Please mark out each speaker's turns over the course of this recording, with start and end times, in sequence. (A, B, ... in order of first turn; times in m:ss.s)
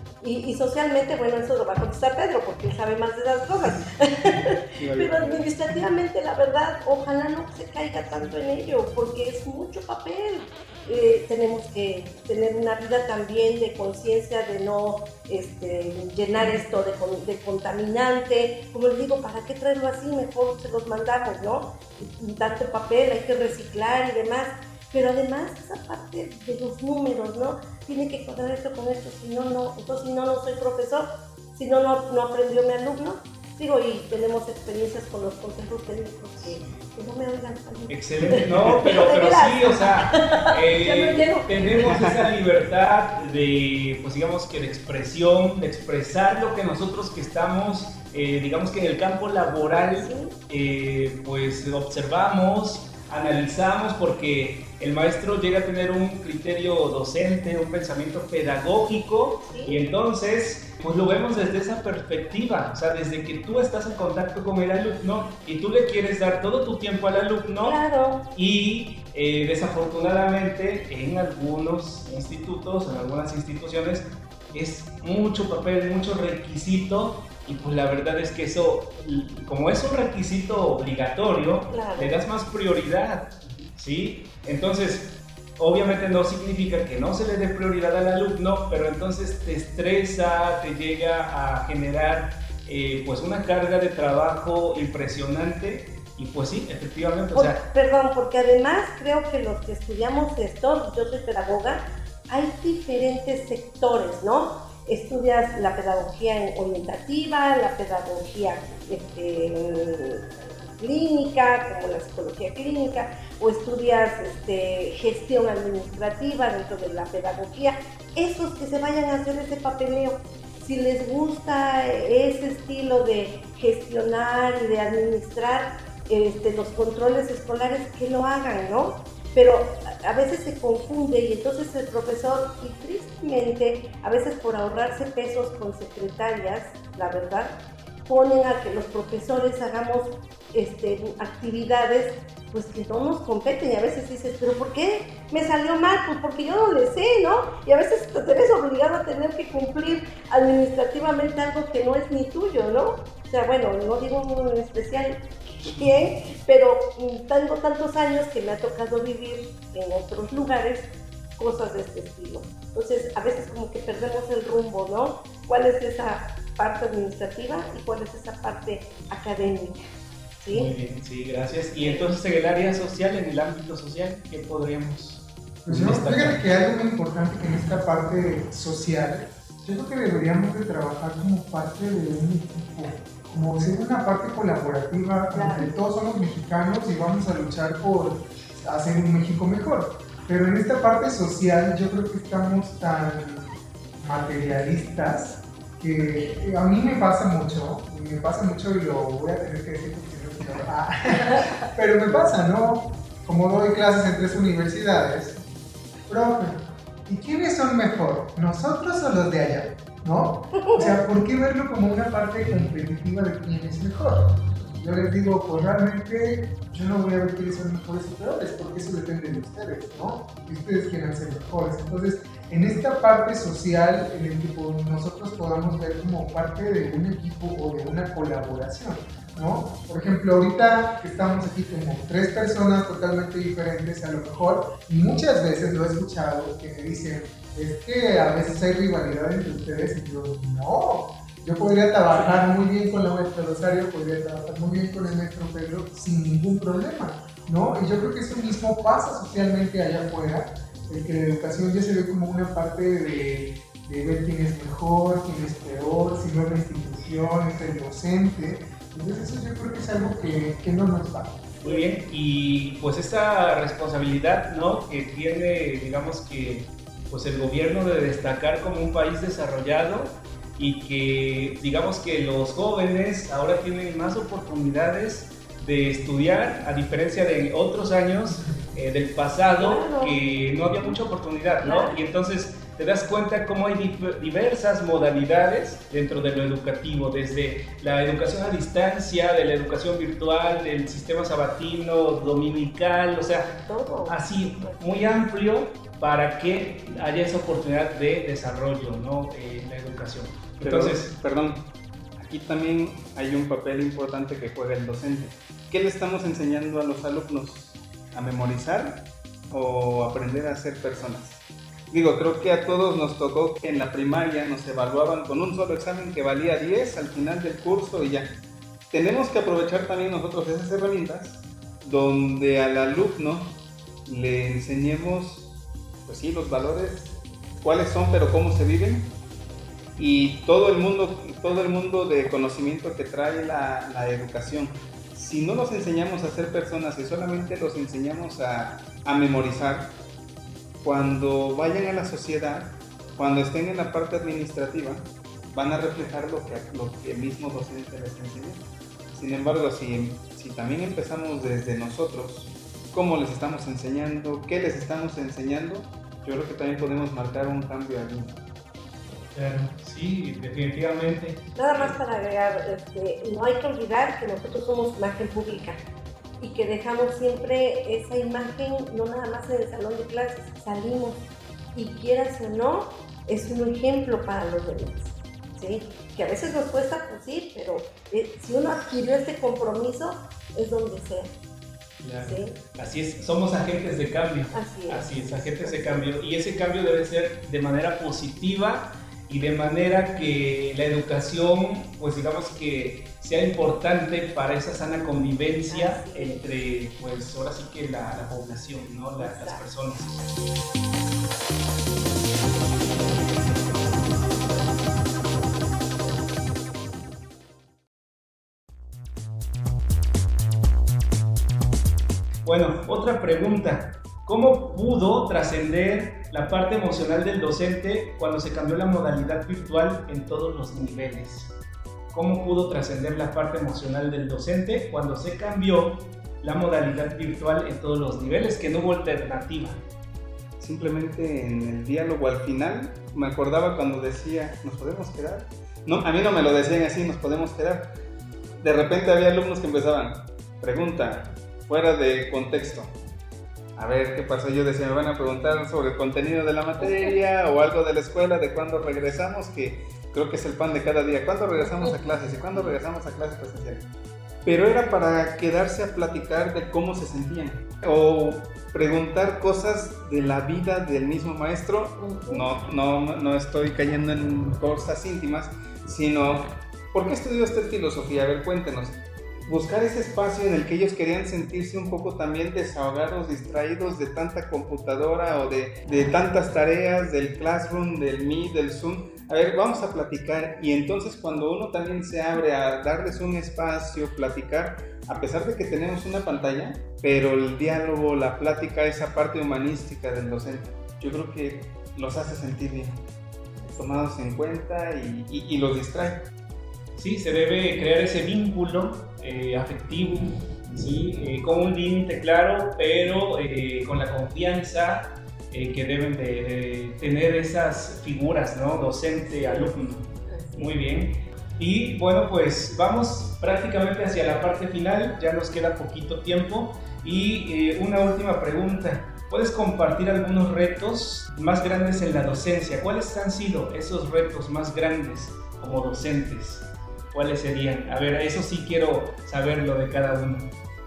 0:00.2-0:42.3 A
0:04.7-0:05.5 B
0:36.4-0:37.0 C
0:37.9-1:07.8 C
0:41.8-0:42.2 B
0:49.9-0:50.4 A
0:59.4-0:59.8 A
1:07.6-1:08.3 A
1:08.3-1:37.6 C
1:21.7-1:22.2 A
1:37.3-2:49.9 A
2:50.4-2:50.7 A
2:50.5-2:56.5 C
2:51.8-2:52.1 A
2:55.7-3:25.4 D
3:05.3-3:05.7 A
3:26.1-4:21.5 D
3:30.6-3:31.0 A
4:21.6-4:21.9 A
4:21.6-4:53.6 C
4:39.6-4:40.2 A
4:41.6-4:42.0 A
4:53.7-4:55.3 A
4:54.1-5:01.1 C
5:00.6-5:18.3 B
5:18.9-5:23.6 B
5:24.1-5:25.5 B
5:26.0-5:29.1 B
5:30.0-5:39.9 B
5:40.8-5:58.4 B
5:59.3-6:02.0 C
6:01.6-6:05.8 A
6:06.4-6:21.3 A
6:22.0-6:40.2 C
6:22.2-6:22.6 A
6:24.5-6:26.1 A
6:35.7-6:36.4 A
6:39.2-6:39.6 A
6:52.4-7:01.5 C
7:02.1-7:09.8 C
7:10.6-7:17.9 B
7:18.6-7:22.9 B
7:23.8-7:33.9 B
7:26.8-7:27.2 A
7:31.6-7:32.0 A
7:34.4-8:13.0 B
7:42.0-7:42.5 A
8:13.8-8:16.3 B
8:17.0-8:50.5 C
8:29.2-8:30.7 A